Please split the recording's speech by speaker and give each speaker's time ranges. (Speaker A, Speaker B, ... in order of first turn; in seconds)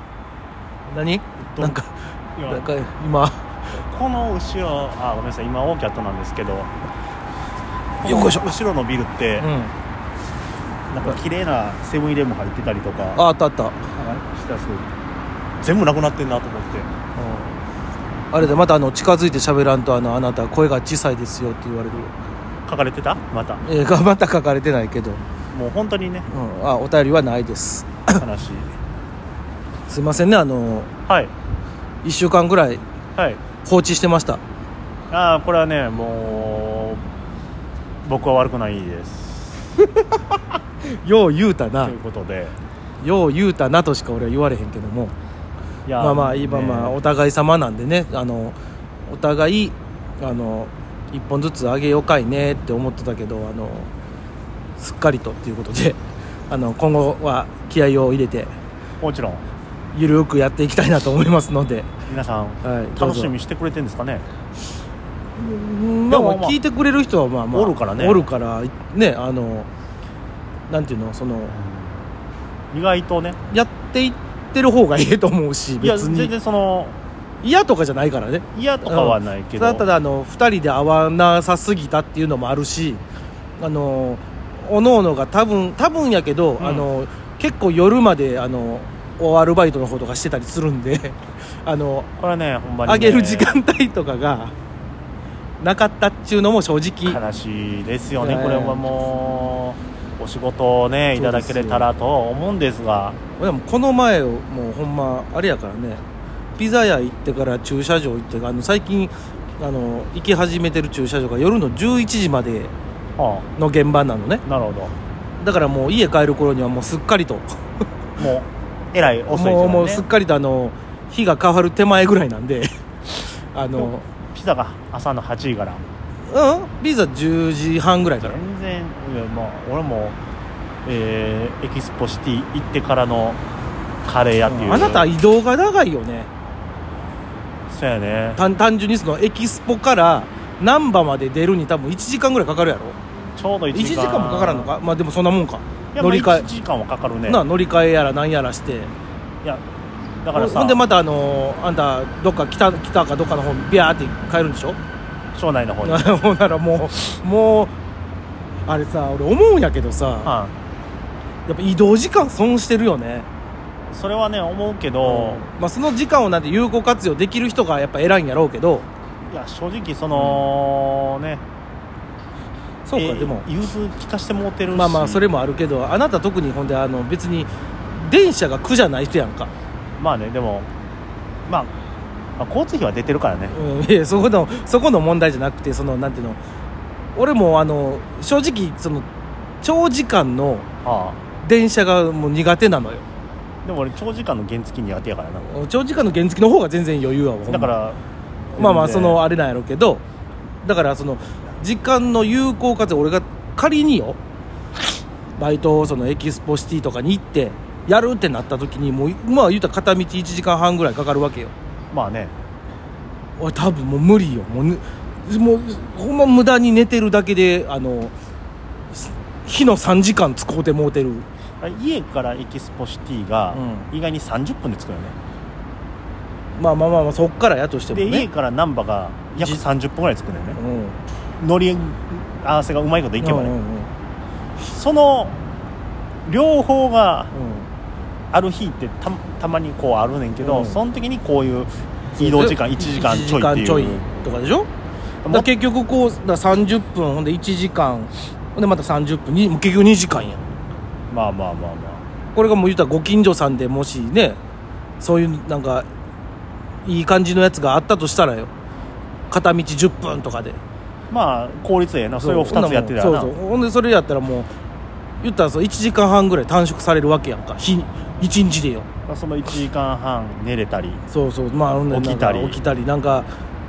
Speaker A: 0.9-3.5, 8.0-8.5, 9.4-9.7, 13.2-14.0, 17.1-17.6, 18.3-22.1, 23.6-25.2, 26.3-28.2, 29.9-30.9, 32.0-32.8, 33.6-34.4, 40.8-41.9, 43.0-45.1, 46.0-48.5, 49.1-53.9, 54.8-58.5, 59.9-61.9, 62.6-63.3, 65.4-69.7, 70.7-71.5, 73.5-76.3, 77.4-83.0, 83.6-92.1, 92.8-94.5, 95.6-97.2, 98.2-98.8, 101.1-101.9, 103.4-106.0, 106.6-112.7, 113.5-114.4, 115.4-117.6, 119.3-124.1, 126.3-128.4, 134.5-136.3, 138.3-143.0, 143.7-146.5, 147.3-148.9, 150.3-154.8, 155.8-157.7, 158.7-160.3, 161.5-163.3, 165.0-168.8, 170.1-170.4, 172.8-173.4, 174.7-179.5, 183.5-186.4, 187.1-189.1, 189.6-190.7, 191.4-193.0, 195.4-197.7, 198.6-200.0, 200.6-204.2, 205.4-211.5, 213.4-218.1, 218.9-221.2, 223.5-223.9, 226.6-228.3, 229.3-229.6, 230.5-231.0, 233.2-233.9, 237.3-237.7, 240.4-240.8, 242.2-244.7, 245.3-250.4, 252.3-254.4, 255.0-255.9, 256.8-258.5, 259.3-260.6, 262.2-264.5, 265.2-268.9, 271.1-273.3
Speaker B: 1.5-1.8, 2.4-2.7, 3.8-6.7, 8.0-9.5, 10.9-13.2, 14.0-14.9, 15.6-16.9, 22.6-23.6, 25.5-26.3, 28.1-28.7, 33.1-33.4, 35.1-37.0, 38.0-39.8, 41.8-42.5, 45.9-47.0, 59.0-59.4, 62.1-64.2, 66.1-66.6, 67.5-68.3, 71.5-72.0, 72.7-73.4, 75.8-77.0, 78.5-79.9, 86.6-86.9, 92.2-93.6, 97.0-103.2, 113.2-113.5, 114.5-114.9, 118.2-120.0, 123.8-125.8, 128.1-130.2, 130.8-133.4, 134.0-135.1, 137.7-138.4, 143.3-144.7, 145.9-147.4, 150.2-150.9, 155.3-156.2, 160.2-160.5, 163.9-165.4, 169.2-171.4, 172.9-175.2, 180.0-180.7, 181.5-181.7, 182.4-183.6, 190.8-191.2, 193.6-195.5, 197.5-198.0, 198.5-199.2, 211.9-212.3, 221.6-225.1, 227.9-230.6, 231.4-233.5, 234.6-235.4, 236.2-237.3, 238.3-244.0, 251.1-252.0, 261.1-263.3, 269.1-271.0, 271.8-272.6